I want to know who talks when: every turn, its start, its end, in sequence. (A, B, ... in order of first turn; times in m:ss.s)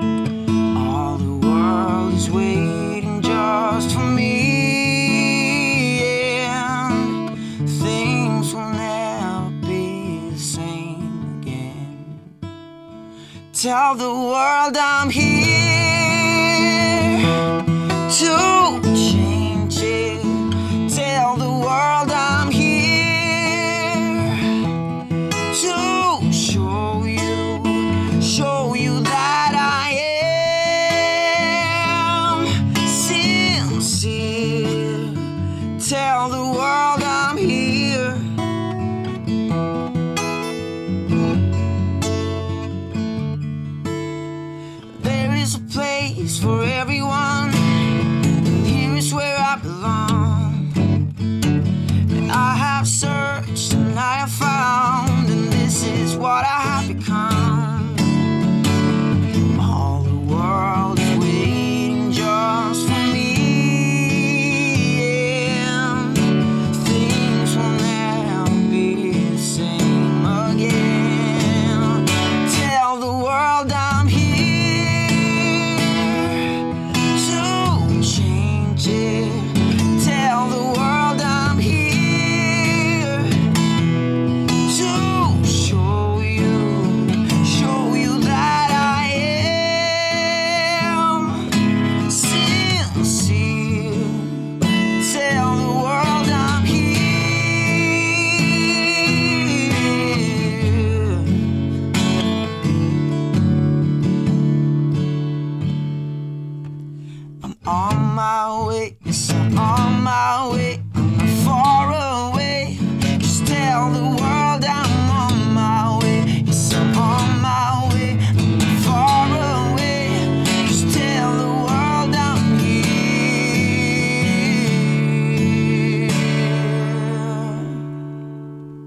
0:00.7-0:12.3 A
0:13.5-0:24.8 A
0:25.4-0:38.3 A
0:44.9-0:51.0 A
0:52.1-0:58.3 A
0:59.3-1:23.7 A
1:24.5-1:41.6 A
1:47.4-2:07.8 A